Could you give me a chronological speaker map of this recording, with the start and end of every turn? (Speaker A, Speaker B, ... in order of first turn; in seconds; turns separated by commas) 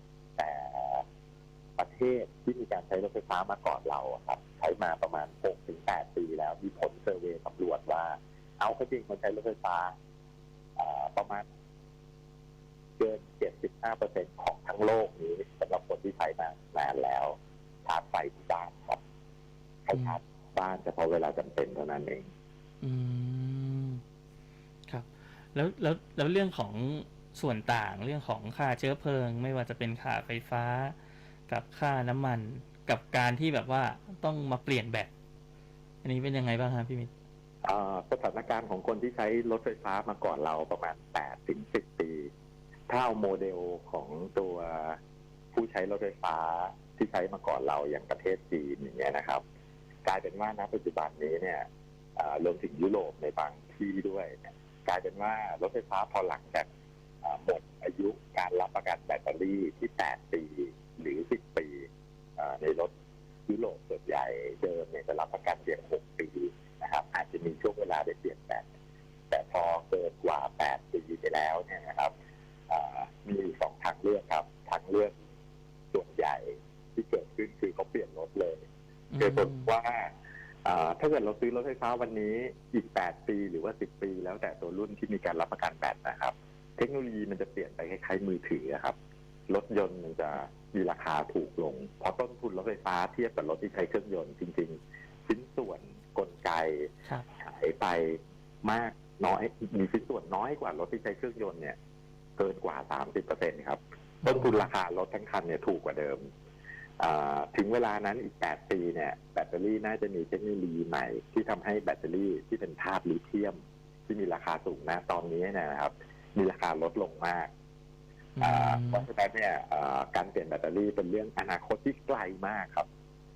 Speaker A: 0.4-1.0, Speaker A: 1.8-9.9, Speaker A: 10.8-11.4, Speaker A: 13.0-17.3, Speaker A: 17.9-19.0, Speaker A: 19.9-22.3, Speaker B: 19.9-20.2, Speaker B: 22.8-24.0, Speaker B: 24.9-31.0, Speaker B: 31.5-35.1, Speaker B: 36.0-37.1, Speaker A: 37.6-42.3, Speaker A: 42.9-45.0, Speaker A: 45.5-49.4, Speaker A: 50.0-51.6, Speaker A: 52.2-56.7, Speaker A: 57.2-62.9, Speaker A: 63.5-68.7, Speaker A: 69.3-72.1, Speaker A: 72.7-75.2, Speaker A: 75.9-78.6, Speaker B: 79.1-79.7, Speaker A: 79.2-80.1, Speaker A: 80.6-89.0, Speaker A: 89.5-96.9, Speaker A: 97.4-101.8, Speaker A: 102.4-106.2, Speaker B: 104.2-104.7, Speaker A: 107.0-113.6, Speaker A: 114.1-117.5, Speaker B: 118.4-119.1, Speaker A: 118.4-122.9